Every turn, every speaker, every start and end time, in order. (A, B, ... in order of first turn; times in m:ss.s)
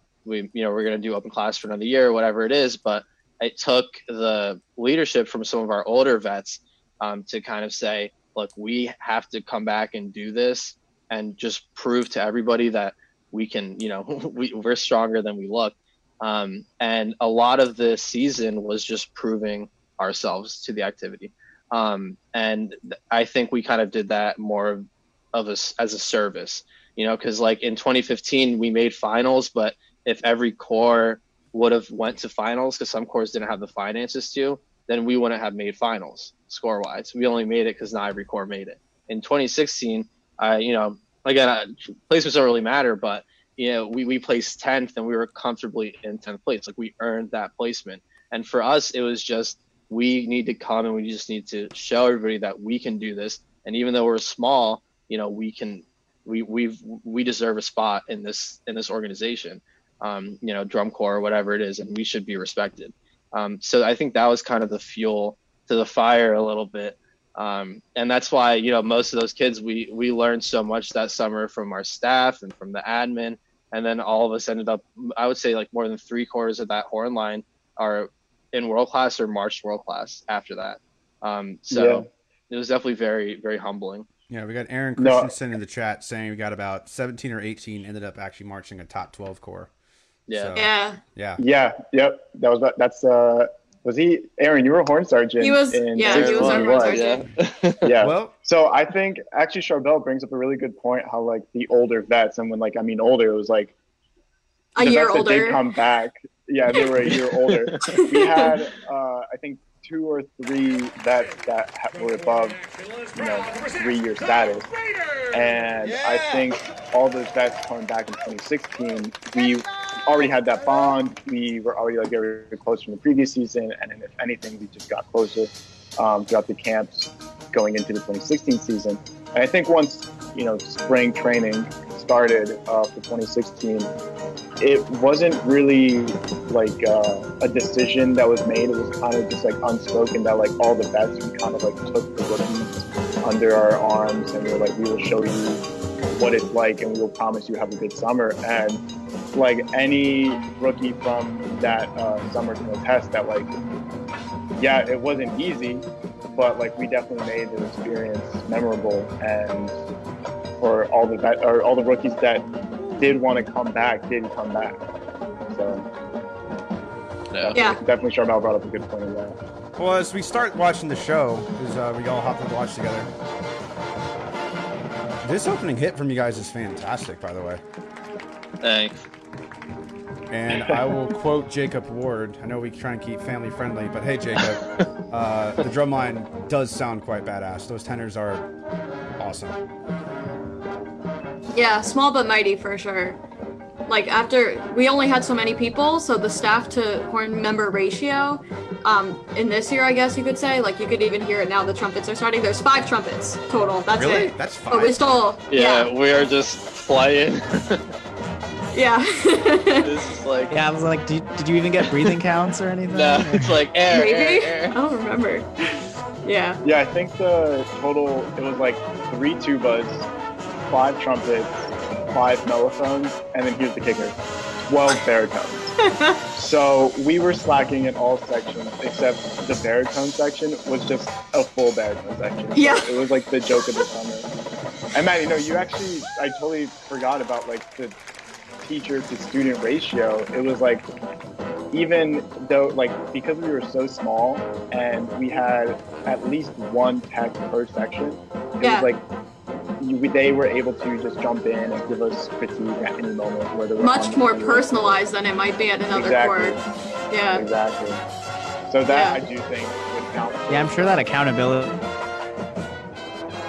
0:00.2-1:24.0 A
1:21.7-1:22.1 B
1:24.3-1:29.7 C
1:25.0-1:25.3 B
1:30.3-1:30.6 A
1:30.3-1:31.4 C
1:30.5-1:31.0 D
1:31.4-1:37.1 B
1:35.4-1:37.2 D
1:36.0-1:37.9 A
1:37.8-1:43.7 B
1:38.0-1:38.3 C
1:44.7-1:45.6 D
1:44.8-1:54.7 B
1:47.7-1:48.0 A
1:47.8-1:48.5 D
1:55.2-2:13.9 B
1:55.8-1:56.2 C
2:14.6-2:33.5 B
2:34.6-2:39.8 B
2:40.6-2:44.8 B
2:45.5-2:45.9 B
2:47.4-2:49.4 B
2:47.5-2:47.8 D
2:49.8-2:53.1 C
2:55.2-2:57.6 C
2:58.6-2:59.1 A
3:00.3-3:08.5 C
3:09.2-3:09.6 C
3:11.5-3:13.2 D
3:13.9-3:25.9 D
3:23.9-3:25.1 C
3:25.5-3:27.9 A
3:28.7-3:29.9 D
3:29.8-3:30.5 A
3:30.5-3:33.6 E
3:31.8-3:32.1 A
3:32.9-3:34.8 A
3:33.9-3:35.5 D
3:36.2-3:36.6 D
3:36.6-3:40.1 B
3:40.7-3:45.7 B
3:45.8-3:46.2 D
3:46.3-3:54.3 B
3:52.5-3:52.9 D
3:54.9-3:57.9 B
3:58.6-4:00.8 B
4:01.7-4:09.0 B
4:08.6-4:08.9 D
4:09.8-4:15.0 B
4:13.8-4:17.5 D
4:15.9-4:16.6 B
4:17.3-4:18.0 B
4:18.7-4:21.2 B
4:18.9-4:19.2 D
4:20.5-4:21.8 E